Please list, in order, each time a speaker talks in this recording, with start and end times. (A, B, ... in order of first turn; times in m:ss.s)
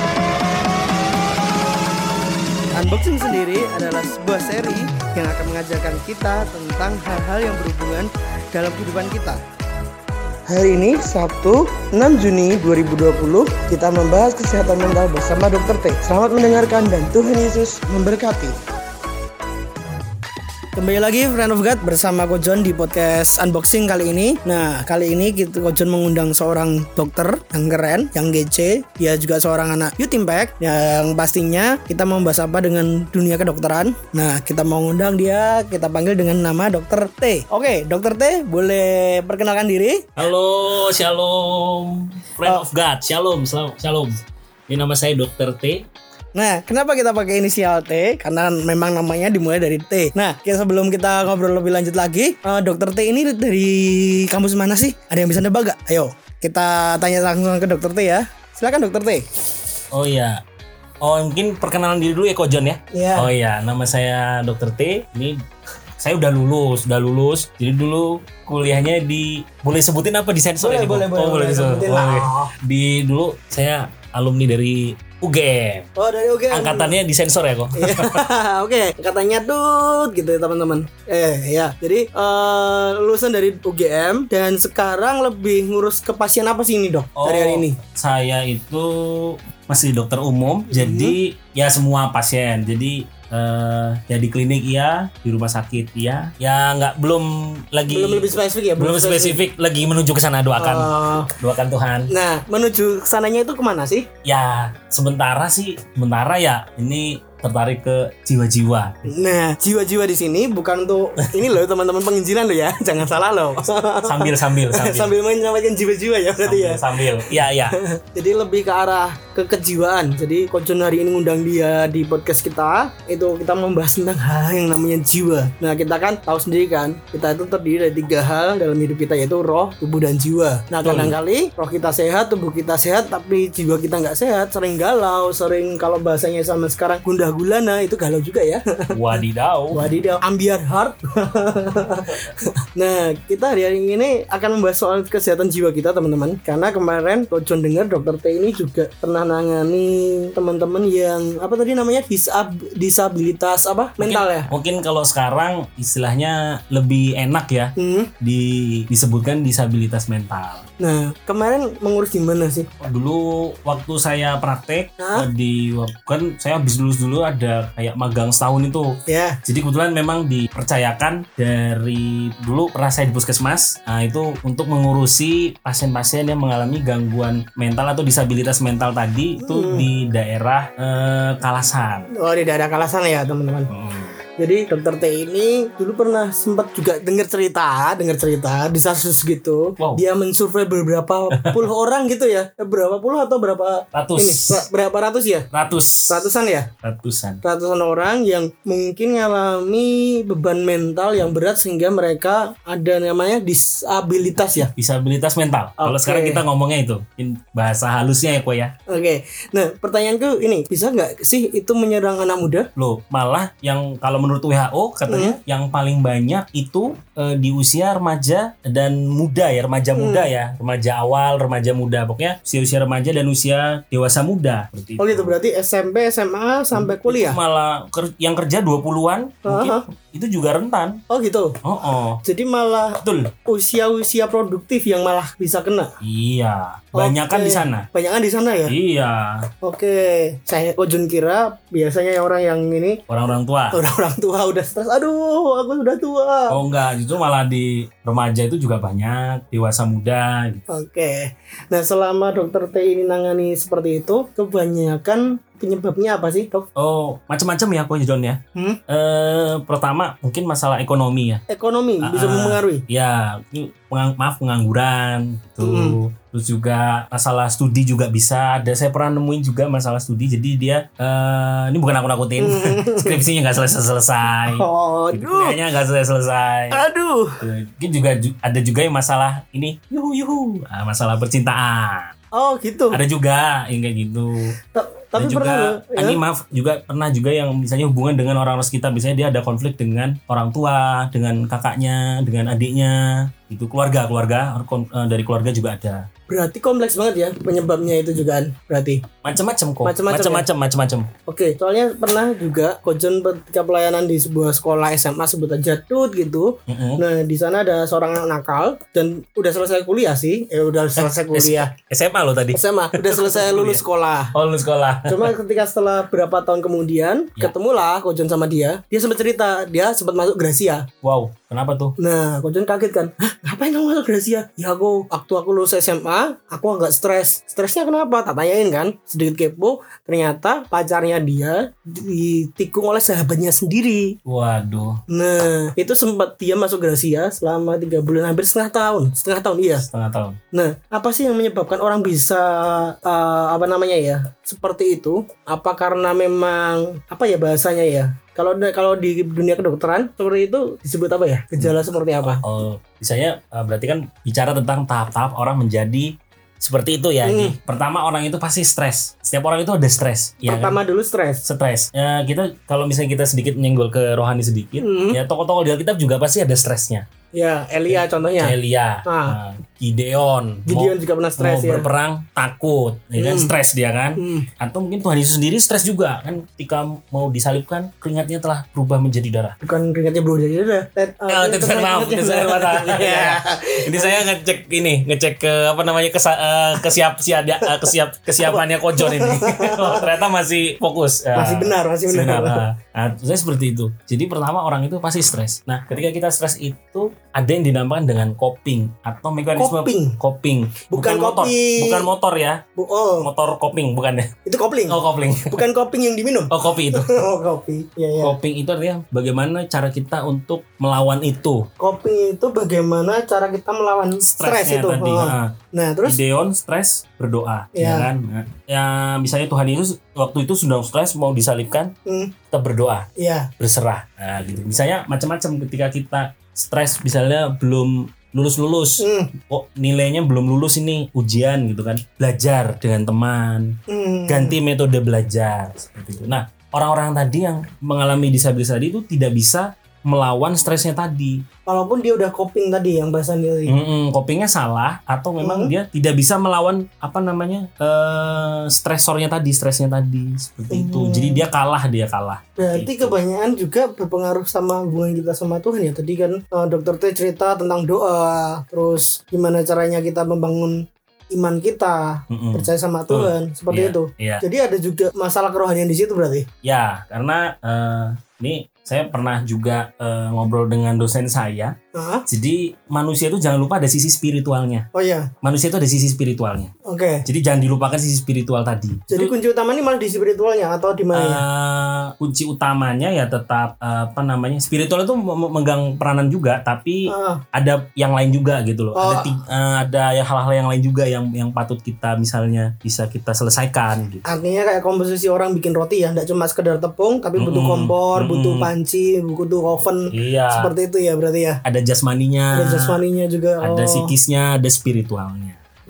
0:02.7-0:09.4 A
0:10.5-0:18.6 A
0:20.8-0:40.1 A
0:40.2-0:45.9 B
0:46.3-0:59.2 A
0:59.9-1:00.4 B
1:01.0-1:05.4 B
1:02.9-1:03.3 A
1:06.0-1:15.9 B
1:10.6-1:12.5 A
1:16.0-1:17.0 A
1:16.5-1:18.2 B
1:17.7-1:27.8 A
1:27.2-1:42.1 B
1:30.7-1:31.2 A
1:37.9-1:39.4 A
1:40.6-1:41.3 A
1:42.1-1:44.1 A
1:44.2-1:49.1 B
1:49.1-2:34.5 A
1:54.0-1:55.1 B
1:56.4-1:57.8 B
2:10.8-2:11.2 B
2:18.9-2:19.8 B
2:34.0-2:40.6 B
2:37.8-2:38.1 A
2:40.8-2:42.7 A
2:42.8-3:02.1 B
2:45.0-2:45.3 A
2:49.1-2:49.4 A
2:59.4-2:59.9 A
3:02.1-3:03.7 A
3:03.7-3:04.2 B
3:04.4-3:15.5 A
3:11.4-3:11.6 B
3:13.9-3:14.7 B
3:15.5-3:16.3 B
3:16.0-3:16.7 A
3:16.8-3:17.4 B
3:17.4-3:24.7 A
3:24.7-3:28.7 B
3:25.8-3:26.4 A
3:28.9-3:32.7 A
3:32.8-3:45.4 B
3:35.1-3:35.4 A
3:39.9-3:40.3 A
3:45.0-3:47.4 A
3:46.7-3:51.0 B
3:49.4-3:49.8 A
3:51.1-3:51.6 A
3:51.6-3:52.2 B
3:52.2-3:55.9 A
3:53.0-3:53.3 B
3:56.0-3:57.9 B
3:57.0-3:58.7 A
3:58.7-3:59.5 B
3:59.6-4:03.0 A
4:03.1-4:03.8 B
4:03.7-4:06.6 A
4:06.5-4:10.6 B
4:10.7-4:16.6 A
4:16.8-4:21.4 B
4:18.5-4:18.8 A
4:21.5-4:22.8 A
4:22.0-4:36.8 B
4:25.6-4:26.0 A
4:32.4-4:33.2 A
4:34.4-4:35.6 A
4:36.7-4:37.4 A
4:37.4-4:42.1 B
4:42.3-4:43.0 A
4:42.9-4:44.5 B
4:44.7-4:46.2 A
4:45.2-4:56.0 B
4:56.3-4:59.0 A
4:59.2-5:01.1 B
4:59.8-5:00.4 A
5:01.3-5:11.7 A
5:06.7-5:07.0 B
5:11.0-5:15.3 B
5:12.5-5:14.3 A
5:15.0-5:20.9 A
5:21.0-5:21.9 B
5:22.0-5:34.2 A
5:34.2-5:35.0 B
5:35.1-5:39.8 A
5:39.8-5:40.4 B
5:40.5-5:52.4 A
5:52.3-6:00.8 B
5:57.2-5:57.6 A
6:00.4-6:01.4 A
6:01.4-6:07.0 B
6:04.8-6:05.2 A
6:07.3-6:09.4 A
6:07.9-6:19.6 B
6:10.7-6:11.9 A
6:13.2-6:13.5 A
6:14.2-6:14.5 A
6:19.6-6:24.2 A
6:21.3-6:42.6 B
6:27.6-6:30.0 A
6:31.3-6:32.6 A
6:39.6-6:40.2 A
6:40.9-6:42.0 A
6:42.8-6:43.3 A
6:43.2-6:44.3 B
6:44.4-6:45.0 A
6:44.9-6:45.6 B
6:45.5-6:48.4 A
6:46.5-6:47.2 B
6:48.2-6:51.7 B
6:51.8-6:56.2 A
6:54.4-6:55.5 B
6:56.0-7:01.9 B
6:57.7-6:58.1 A
7:02.0-7:02.3 A
7:02.5-7:03.1 B
7:03.2-7:03.5 A
7:03.6-7:13.8 B
7:09.0-7:09.3 A
7:13.9-7:14.6 A
7:14.3-7:21.4 B
7:21.6-7:23.7 A
7:23.7-7:33.2 B
7:25.4-7:25.7 A
7:30.7-7:31.4 A
7:32.6-7:46.5 A
7:42.3-7:44.4 B
7:46.6-7:51.7 B
7:51.9-7:52.2 A
7:52.3-7:54.9 B
7:54.9-7:55.3 A
7:55.4-7:56.7 B
7:56.8-7:57.2 A
7:57.2-7:59.3 B
7:59.1-8:01.4 A
8:01.1-8:14.2 B
8:07.1-8:07.4 A
8:09.0-8:09.3 A
8:14.2-8:21.6 A
8:17.4-8:18.7 B
8:20.1-8:20.7 B
8:21.6-8:23.0 B
8:22.5-8:24.1 A
8:23.6-8:25.6 B